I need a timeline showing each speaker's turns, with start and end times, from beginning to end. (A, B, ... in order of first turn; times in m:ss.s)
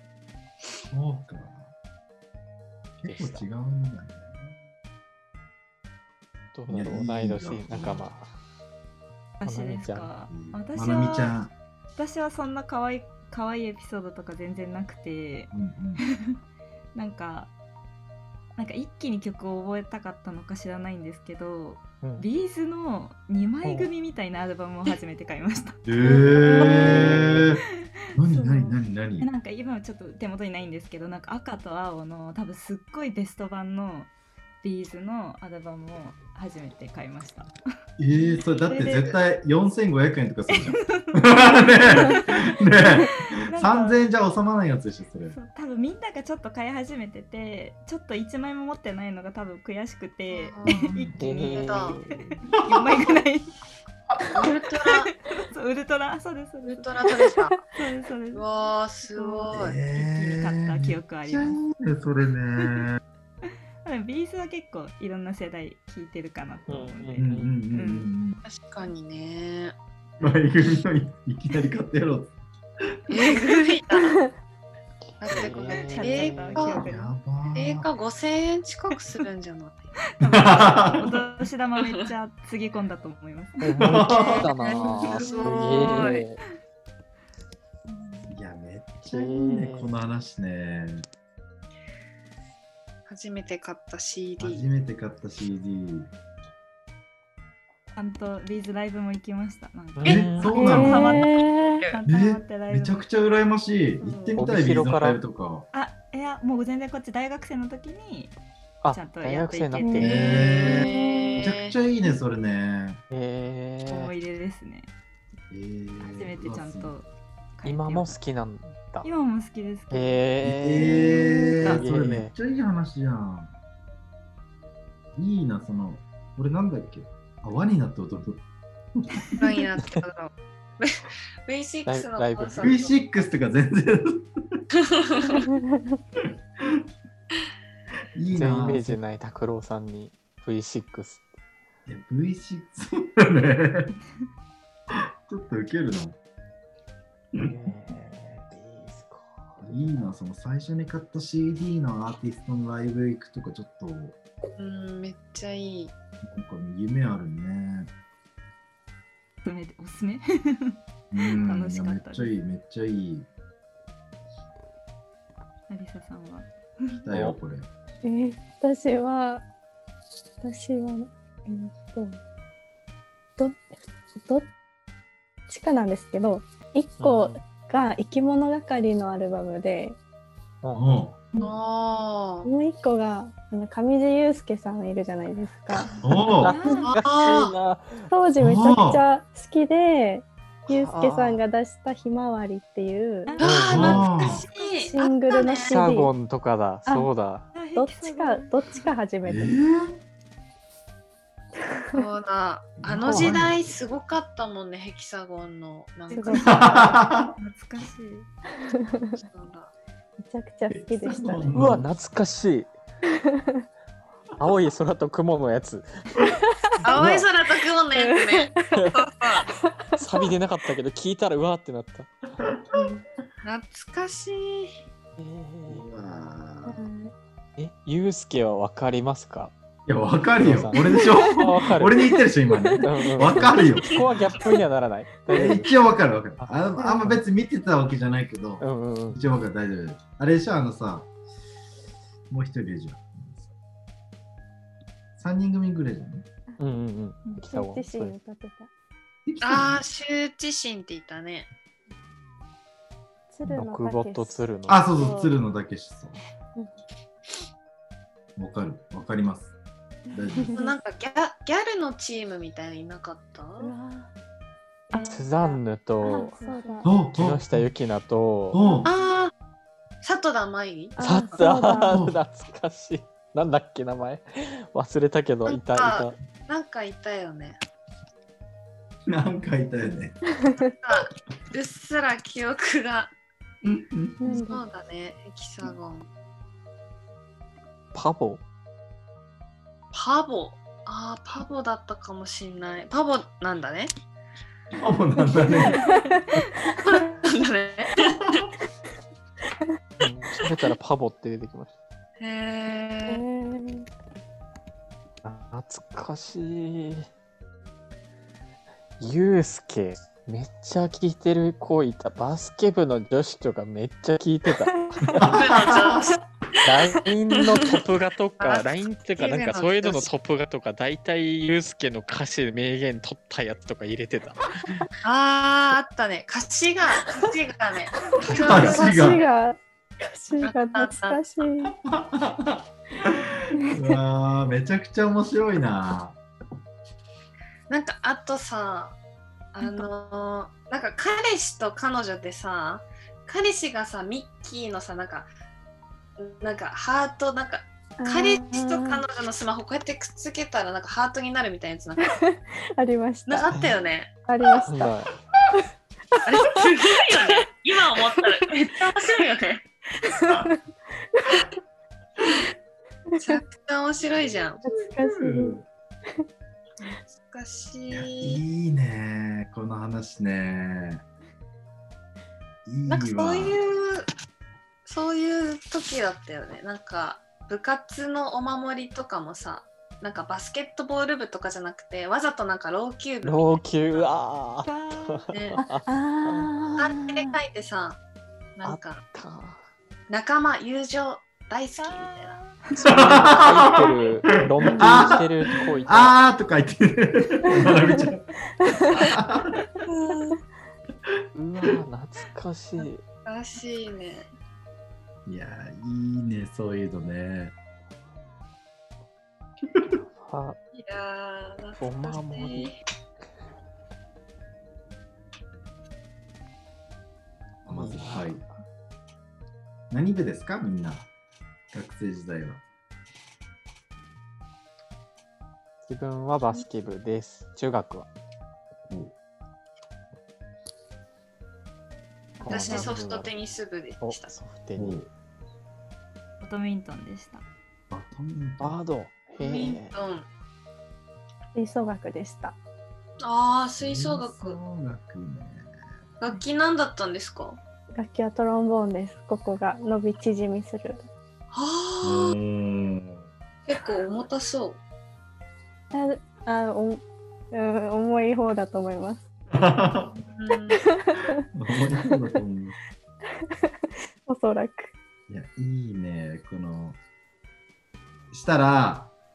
0:00.9-0:01.7 A
0:03.0-0:04.5 A
0:03.0-0:03.4 B
0:06.5-0:08.3 B
0:06.7-0:08.0 A
0:09.4-0:11.4 C
0:09.4-0:10.1 B
0:10.3-0:11.5 A
0:12.0-0:16.4 C
0:15.5-0:16.0 A
0:16.9-0:17.5 C
0:18.6-0:27.1 C
0:22.0-0:22.3 B
0:23.6-0:23.9 B
0:25.8-0:27.6 A
0:26.7-0:27.5 B
0:28.1-0:34.1 C
0:28.1-0:29.3 A
0:34.6-0:37.5 C
0:38.0-0:45.4 A
0:38.1-0:39.2 C
0:40.5-0:44.0 C
0:45.3-0:53.5 C
0:50.3-0:50.9 D
0:50.7-0:51.2 A
0:51.2-0:52.4 B
0:51.5-0:52.0 D
0:52.6-0:53.0 A
0:54.3-0:55.1 D
0:54.8-0:57.1 C
0:56.6-0:57.6 D
0:57.7-0:58.4 C
0:58.3-0:59.8 D
0:59.1-1:01.6 C
0:59.5-1:03.0 A
1:02.6-1:02.9 C
1:03.8-1:08.1 C
1:06.7-1:07.5 B
1:07.2-1:08.4 A
1:08.4-1:09.7 D
1:10.2-1:13.0 A
1:13.1-1:14.2 D
1:15.2-1:16.9 D
1:15.2-1:16.8 B
1:15.7-1:17.1 C
1:16.8-1:17.9 A
1:17.5-1:19.9 D
1:20.2-1:23.8 C
1:20.2-1:21.2 A
1:21.8-1:22.0 D
1:23.6-1:26.4 B
1:23.8-1:25.6 A
1:24.1-1:26.2 D
1:27.9-1:28.3 C
1:28.3-1:31.0 A
1:29.1-1:29.9 B
1:33.1-1:34.7 D
1:34.4-1:36.1 A
1:37.9-1:43.0 C
1:40.0-1:40.8 B
1:40.0-1:41.3 A
1:40.5-1:41.8 E
1:42.1-1:45.7 A
1:44.0-1:44.4 D
1:44.4-1:45.2 B
1:45.7-1:48.3 C
1:48.8-1:50.2 B
1:48.9-1:50.6 C
1:49.8-1:51.4 E
1:50.0-1:53.0 A
1:50.2-1:51.7 D
1:53.1-1:54.1 B
1:53.9-1:54.9 C
1:55.5-1:56.9 A
1:56.0-1:57.1 C
1:57.6-1:58.2 C
1:57.6-1:59.1 B
1:59.0-2:00.3 C
1:59.9-2:01.1 B
2:00.4-2:03.5 A
2:00.9-2:01.8 C
2:01.2-2:01.5 E
2:01.6-2:02.3 B
2:05.2-2:08.4 A
2:09.0-2:09.3 A
2:09.4-2:13.0 D
2:11.8-2:12.7 B
2:12.6-2:14.6 A
2:14.8-2:15.5 D
2:16.2-2:16.8 A
2:18.2-2:19.0 A
2:18.3-2:21.2 B
2:21.8-2:23.9 A
2:24.9-2:26.2 A
2:27.4-2:30.1 B
2:29.6-2:34.2 A
2:34.6-2:35.9 D
2:36.2-2:37.9 A
2:39.4-2:42.3 C
2:41.1-2:43.3 A
2:45.7-2:47.0 C
2:47.0-2:47.7 A
2:47.1-2:47.4 B
2:48.0-2:49.4 E
2:50.4-2:52.2 E
2:54.2-2:54.5 E
2:55.5-3:00.0 E
2:57.0-2:57.4 B
3:00.6-3:01.0 B
3:00.7-3:01.2 A
3:01.4-3:02.5 D
3:02.4-3:05.9 E
3:05.9-3:06.9 C
3:06.0-3:06.6 A
3:06.3-3:08.1 B
3:06.8-3:07.5 D
3:08.0-3:13.4 E
3:08.4-3:09.0 A
3:10.7-3:11.4 B
3:13.3-3:14.9 C
3:13.4-3:15.8 D
3:13.4-3:14.3 B
3:13.7-3:14.4 A
3:14.8-3:16.1 E
3:15.6-3:17.5 B
3:17.5-3:18.9 C
3:17.7-3:19.5 E
3:19.2-3:19.9 A
3:21.7-3:22.0 E
3:21.9-3:26.9 D
3:22.8-3:23.6 A
3:23.0-3:23.5 B
3:26.1-3:26.4 C
3:26.1-3:26.6 E
3:26.4-3:27.3 A
3:27.4-3:28.3 C
3:28.7-3:29.2 E
3:29.2-3:29.7 D
3:30.2-3:31.6 E
3:30.7-3:31.9 A
3:31.5-3:32.7 B
3:33.2-3:33.6 E
3:34.4-3:35.9 B
3:36.8-3:39.5 D
3:36.9-3:37.2 B
3:37.9-3:38.6 E
3:39.8-3:40.3 E
3:40.0-3:42.1 B
3:42.4-3:42.6 A
3:42.7-3:43.0 E
3:43.4-3:44.8 D
3:45.2-3:45.8 B
3:45.7-3:46.8 A
3:46.6-3:47.1 E
3:47.6-3:49.5 B
3:49.9-3:53.9 A
3:50.4-3:52.0 B
3:50.8-3:51.4 E
3:52.0-3:54.5 E
3:52.8-3:55.7 B
3:55.3-4:01.1 A
3:56.4-3:57.2 B
3:56.8-3:57.1 E
3:58.6-3:59.2 B
4:02.3-4:03.5 A
4:05.2-4:06.2 A
4:06.6-4:08.2 B
4:07.3-4:08.7 E
4:09.2-4:09.8 A
4:09.4-4:11.5 D
4:13.3-4:15.3 E
4:13.4-4:14.8 B
4:14.7-4:16.2 A
4:18.4-4:19.5 A
4:20.1-4:20.5 A
4:20.1-4:20.7 E
4:20.5-4:23.7 D
4:23.6-4:24.1 E
4:24.9-4:26.9 E
4:24.9-4:25.2 C
4:25.1-4:26.3 B
4:26.4-4:26.9 C
4:26.8-4:27.7 A
4:27.1-4:28.6 B
4:28.5-4:28.9 A
4:28.6-4:28.9 E
4:28.8-4:29.3 D
4:30.0-4:31.0 D
4:31.0-4:32.0 E
4:31.0-4:36.1 B
4:31.9-4:32.2 A
4:35.4-4:37.6 D
4:39.1-4:40.2 A
4:40.6-4:43.1 D
4:43.6-4:44.4 A
4:44.2-4:44.6 E
4:44.5-4:46.1 D
4:47.9-4:48.4 B
4:49.9-4:53.9 D
4:54.8-4:55.9 A
4:55.2-4:56.1 E
4:56.8-4:58.5 D
5:00.0-5:01.7 B
5:02.2-5:03.2 D
5:03.1-5:03.9 E
5:05.2-5:07.1 B
5:09.0-5:15.2 B
5:15.1-5:16.2 A
5:15.2-5:16.2 D
5:16.6-5:24.4 B
5:18.4-5:20.1 D
5:25.0-5:29.0 D
5:28.3-5:29.2 A
5:28.3-5:31.7 E
5:28.4-5:28.8 B
5:30.4-5:31.2 D
5:31.7-5:36.2 A
5:37.7-5:39.0 D
5:39.5-5:45.3 D
5:46.2-5:52.2 D
5:48.0-5:49.0 E
5:52.0-5:53.6 E
5:53.3-5:54.1 D
5:54.2-5:55.0 E
5:54.7-5:55.1 B
5:56.2-5:59.6 D
6:00.0-6:00.5 E
6:01.2-6:01.5 E
6:03.2-6:04.6 D
6:04.6-6:05.6 E
6:04.7-6:05.7 A
6:06.8-6:08.4 D
6:07.9-6:11.0 A
6:12.6-6:13.6 A
6:12.9-6:14.1 D
6:14.8-6:24.0 D
6:23.2-6:26.5 B
6:24.6-6:25.3 C
6:25.3-6:25.6 D
6:25.9-6:27.4 E
6:26.8-6:28.0 D
6:28.6-6:29.0 D
6:28.6-6:29.6 B
6:30.1-6:32.4 D
6:32.6-6:32.9 C
6:32.8-6:35.3 A
6:32.8-6:36.2 B
6:34.8-6:35.1 E
6:35.8-6:38.3 A
6:37.5-6:38.1 E
6:38.7-6:39.1 E
6:38.9-6:39.6 A
6:39.8-6:40.4 D
6:41.3-6:43.0 B
6:43.2-6:44.3 D
6:45.2-6:47.5 A
6:49.7-6:50.0 A
6:50.2-6:50.6 B
6:50.7-6:52.8 D
6:51.8-6:52.7 B
6:57.6-6:58.4 A
6:57.7-6:58.4 B
6:59.9-7:01.1 A
7:01.7-7:02.6 A
7:05.8-7:08.1 B
7:12.4-7:13.3 B
7:12.4-7:12.8 E
7:12.5-7:14.3 D
7:14.0-7:15.0 B
7:14.8-7:15.1 A
7:16.4-7:17.4 C
7:17.9-7:18.8 A
7:18.6-7:20.0 B
7:19.4-7:20.3 D
7:21.6-7:22.6 E
7:23.2-7:24.6 D
7:23.8-7:25.7 A
7:26.2-7:27.6 D
7:27.9-7:31.1 E
7:31.5-7:32.4 D
7:32.0-7:33.2 A
7:33.7-7:34.8 D
7:35.9-7:39.2 E
7:39.5-7:40.1 A
7:40.3-7:40.8 D
7:40.7-7:42.4 E
7:41.5-7:42.8 A
7:44.2-7:44.9 E
7:45.3-7:47.0 A
7:48.3-7:49.1 A